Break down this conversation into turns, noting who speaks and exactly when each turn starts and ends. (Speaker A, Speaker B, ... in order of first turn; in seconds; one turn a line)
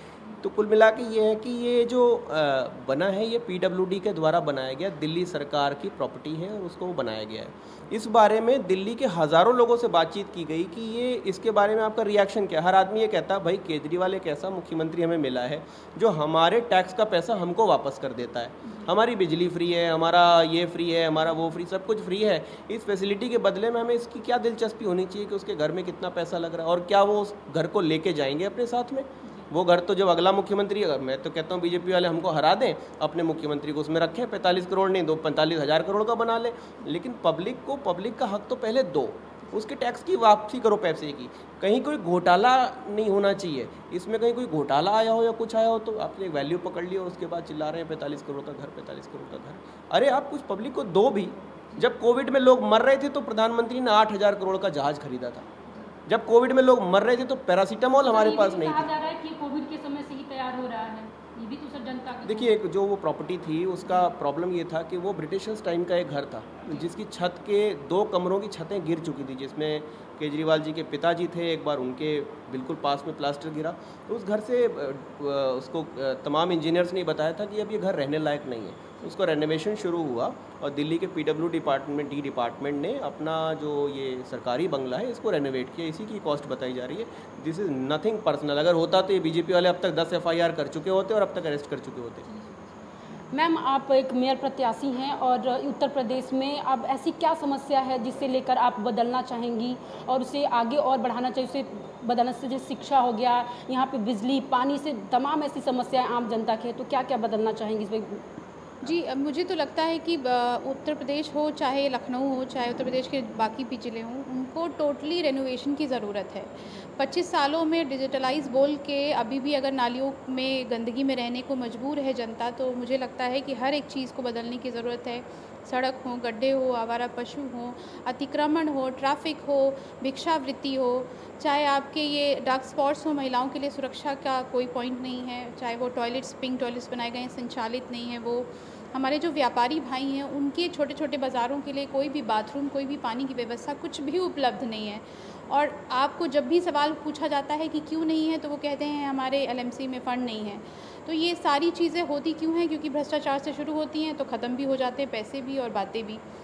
Speaker A: 0.4-55.5
Speaker B: 29.2-29.5
Speaker A: 56.1-58.9
Speaker B: 58.0-62.6
Speaker A: 62.2-92.2
Speaker B: 66.7-66.9
Speaker B: 92.3-92.6
Speaker B: 93.3-108.2
Speaker C: 109.1-116.5
Speaker C: 117.1-131.1
Speaker C: 131.6-156.2